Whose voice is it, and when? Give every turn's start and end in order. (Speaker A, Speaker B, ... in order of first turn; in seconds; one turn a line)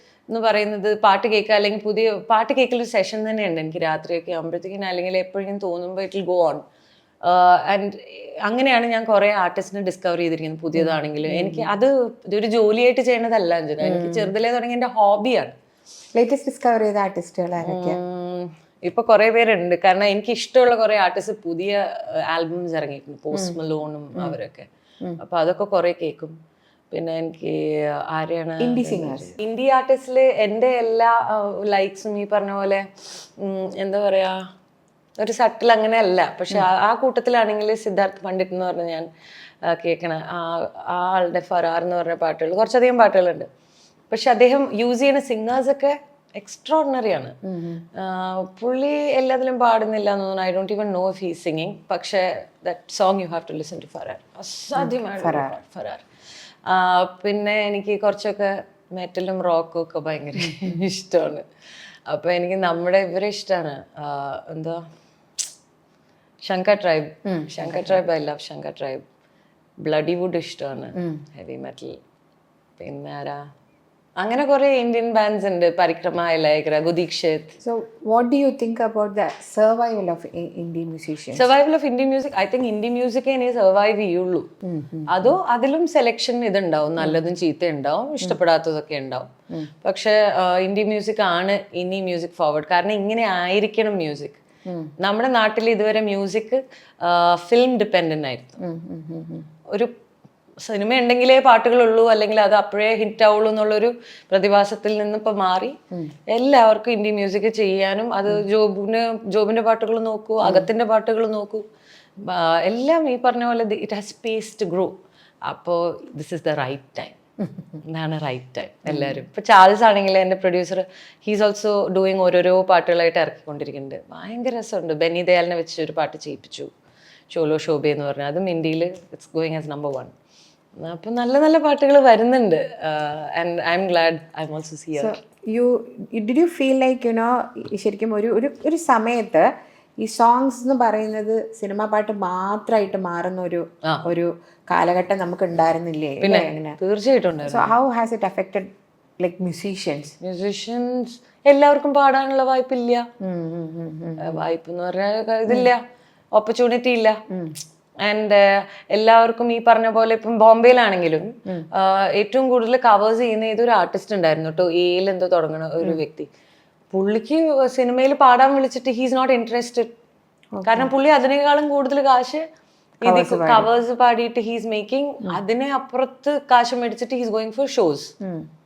Speaker A: 0.3-6.6
Speaker A: 7.2-15.6
Speaker B: 10.8-11.7
Speaker B: 13.8-14.3
Speaker B: 16.1-18.0
Speaker A: 17.6-24.7
Speaker B: 23.3-23.6
Speaker A: 25.2-26.4
Speaker A: 26.9-34.4
Speaker B: 28.6-29.4
Speaker A: 35.2-39.1
Speaker A: 39.6-43.5
Speaker A: 44.1-47.4
Speaker B: 47.4-47.9
Speaker A: 47.9-56.0
Speaker B: 54.8-55.5
Speaker A: 56.6-61.5
Speaker B: 60.5-60.8
Speaker A: 62.1-64.8
Speaker A: 66.4-69.0
Speaker B: 67.3-68.0
Speaker A: 69.8-72.0
Speaker B: 71.0-71.2
Speaker A: 72.8-73.5
Speaker A: 74.2-77.6
Speaker B: 77.6-81.5
Speaker A: 81.3-84.5
Speaker B: 84.6-85.4
Speaker A: 85.1-94.4
Speaker B: 94.7-94.9
Speaker A: 95.0-98.6
Speaker B: 98.6-99.5
Speaker A: 100.6-111.7
Speaker B: 110.4-110.7
Speaker A: 112.2-117.2
Speaker A: 117.8-126.7
Speaker B: 118.9-119.2
Speaker A: 127.3-130.1
Speaker A: 130.8-135.2
Speaker B: 135.0-146.8
Speaker A: 146.2-147.7
Speaker B: 147.4-150.2
Speaker A: 150.2-153.1
Speaker B: 153.2-154.4
Speaker A: 154.2-155.8
Speaker A: 156.3-157.2
Speaker B: 157.3-157.6
Speaker A: 158.0-166.3
Speaker A: 166.9-169.9
Speaker B: 170.5-170.9
Speaker A: 170.7-172.5
Speaker A: 173.0-178.1
Speaker B: 173.1-173.7
Speaker B: 178.2-178.5